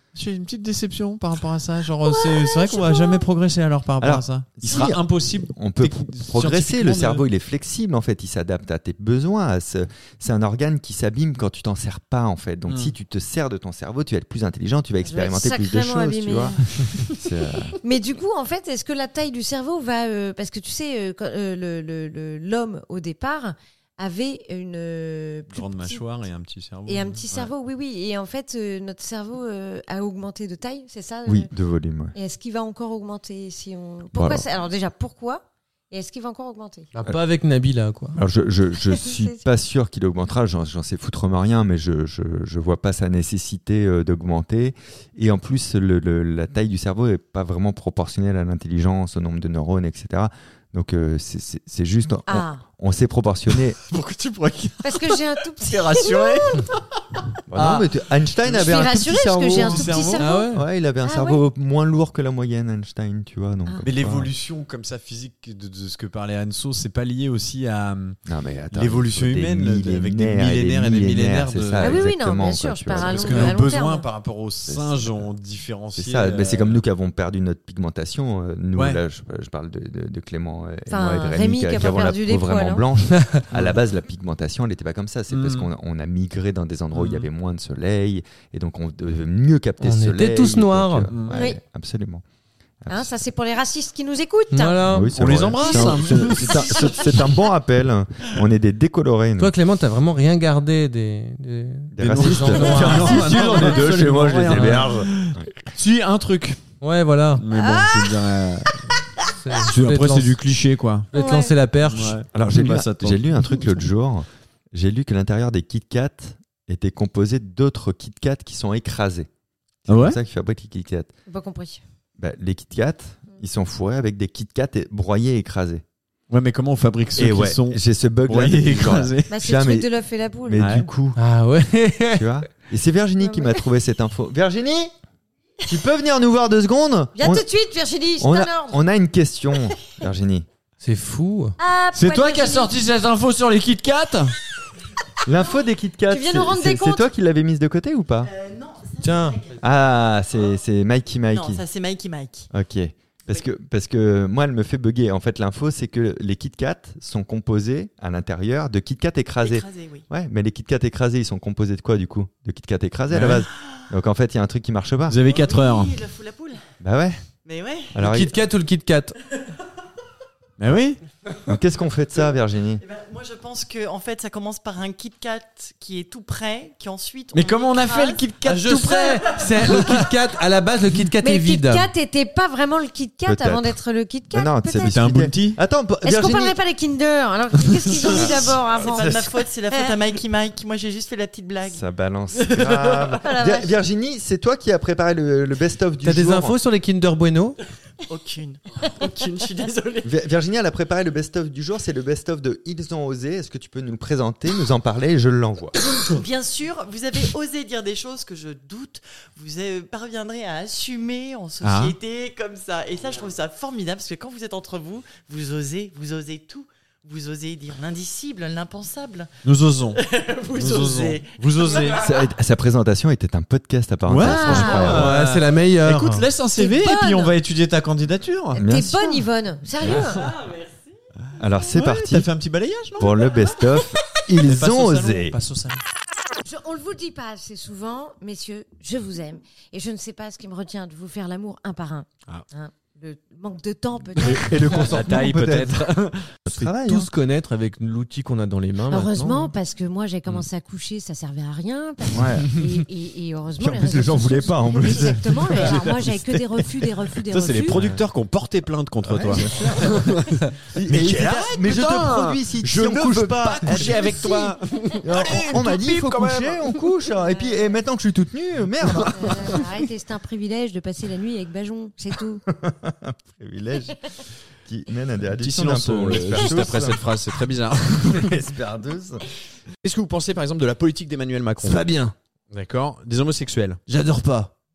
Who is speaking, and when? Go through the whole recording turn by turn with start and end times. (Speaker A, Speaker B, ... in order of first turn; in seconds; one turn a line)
Speaker A: 0.1-7.2
Speaker B: 2.1-3.3
Speaker C: 4.0-17.8
Speaker A: 12.7-12.9
Speaker B: 15.0-16.6
Speaker B: 17.8-26.0
Speaker A: 25.5-27.5
Speaker B: 26.9-31.5
Speaker C: 31.3-32.1
Speaker B: 32.1-36.9
Speaker C: 34.1-34.4
Speaker D: 36.9-38.2
Speaker C: 38.1-53.8
Speaker B: 38.9-39.5
Speaker B: 52.3-52.6
Speaker A: 53.5-57.9
Speaker B: 54.8-56.6
Speaker C: 57.5-64.3
Speaker B: 58.5-60.5
Speaker A: 59.6-60.5
Speaker D: 60.2-60.6
Speaker B: 61.0-61.4
Speaker A: 63.8-68.2
Speaker C: 68.3-73.7
Speaker A: 68.7-72.0
Speaker B: 71.8-74.1
Speaker A: 72.9-76.8
Speaker C: 74.7-75.2
Speaker C: 76.0-92.2
Speaker A: 78.8-79.0
Speaker B: 80.9-82.8
Speaker A: 83.5-83.8
Speaker A: 85.3-85.7
Speaker A: 86.9-87.3
Speaker D: 89.8-91.1
Speaker A: 91.1-91.4
Speaker B: 91.3-91.6
Speaker C: 92.8-93.1
Speaker B: 92.9-94.9
Speaker D: 94.5-95.1
Speaker C: 94.9-99.5
Speaker A: 95.2-97.3
Speaker B: 95.6-97.2
Speaker D: 99.4-103.4
Speaker C: 101.9-105.5
Speaker A: 102.0-106.6
Speaker B: 102.9-103.8
Speaker D: 106.8-107.4
Speaker A: 107.4-109.0
Speaker B: 107.5-109.3
Speaker D: 109.4-110.4
Speaker A: 109.6-111.1
Speaker D: 111.1-112.2
Speaker B: 111.1-111.5
Speaker A: 111.9-113.9
Speaker C: 112.3-119.3
Speaker C: 119.9-121.1
Speaker A: 119.9-120.2
Speaker B: 121.3-121.8
Speaker C: 122.2-125.8
Speaker A: 126.3-129.4
Speaker C: 127.2-129.9
Speaker B: 129.3-130.7
Speaker C: 130.5-131.2
Speaker A: 130.6-130.9
Speaker D: 131.2-132.3
Speaker C: 132.1-134.9
Speaker B: 133.2-133.6
Speaker C: 135.7-137.5
Speaker B: 137.2-138.8
Speaker C: 138.2-140.5
Speaker D: 140.8-141.6
Speaker B: 141.6-142.7
Speaker A: 141.9-144.3
Speaker C: 145.2-148.3
Speaker B: 146.1-147.1
Speaker E: 148.3-149.6
Speaker D: 149.0-149.4
Speaker C: 149.6-151.6
Speaker E: 151.3-152.5
Speaker C: 152.5-165.2
Speaker E: 159.4-160.1
Speaker A: 163.1-163.4
Speaker A: 165.1-166.0
Speaker E: 165.2-166.6
Speaker C: 166.8-167.2
Speaker E: 167.4-168.0
Speaker C: 167.9-168.3
Speaker D: 168.0-169.2
Speaker A: 170.6-171.0
Speaker C: 171.4-172.8
Speaker E: 172.8-178.3
Speaker A: 177.3-180.1
Speaker D: 178.4-181.9
Speaker B: 181.2-185.0
Speaker C: 183.3-183.8
Speaker C: 184.3-186.6
Speaker A: 184.9-185.6
Speaker B: 186.0-190.0
Speaker A: 187.7-188.2
Speaker C: 188.1-189.3
Speaker E: 188.2-191.8
Speaker C: 191.7-196.6
Speaker B: 193.2-193.7
Speaker D: 196.0-197.6
Speaker E: 198.1-200.1
Speaker C: 200.0-205.8
Speaker E: 206.1-219.3
Speaker A: 211.6-212.0
Speaker A: 219.4-222.1
Speaker E: 219.9-222.0
Speaker C: 221.9-225.2
Speaker A: 224.1-228.6
Speaker B: 224.2-225.0
Speaker D: 224.8-226.3
Speaker B: 226.6-227.3
Speaker C: 228.6-229.2
Speaker B: 228.6-230.3
Speaker A: 229.8-230.3
Speaker E: 230.2-230.9
Speaker C: 231.4-232.3
Speaker A: 231.8-233.4
Speaker C: 233.0-235.4
Speaker A: 234.4-235.8
Speaker B: 236.4-244.6
Speaker C: 244.2-245.9
Speaker A: 244.3-246.4
Speaker C: 246.5-247.1
Speaker D: 246.5-249.5
Speaker B: 248.9-257.8
Speaker C: 252.1-252.8
Speaker C: 253.6-256.1
Speaker A: 254.9-256.2
Speaker A: 257.2-266.8
Speaker C: 257.7-258.0
Speaker C: 259.0-269.6
Speaker B: 267.3-267.7
Speaker A: 268.9-269.7
Speaker B: 269.1-272.4
Speaker C: 272.5-274.0
Speaker C: 274.6-277.0
Speaker A: 275.4-278.3
Speaker C: 278.1-279.2
Speaker A: 279.8-281.9
Speaker D: 281.6-282.1
Speaker A: 282.5-283.8
Speaker D: 283.9-284.5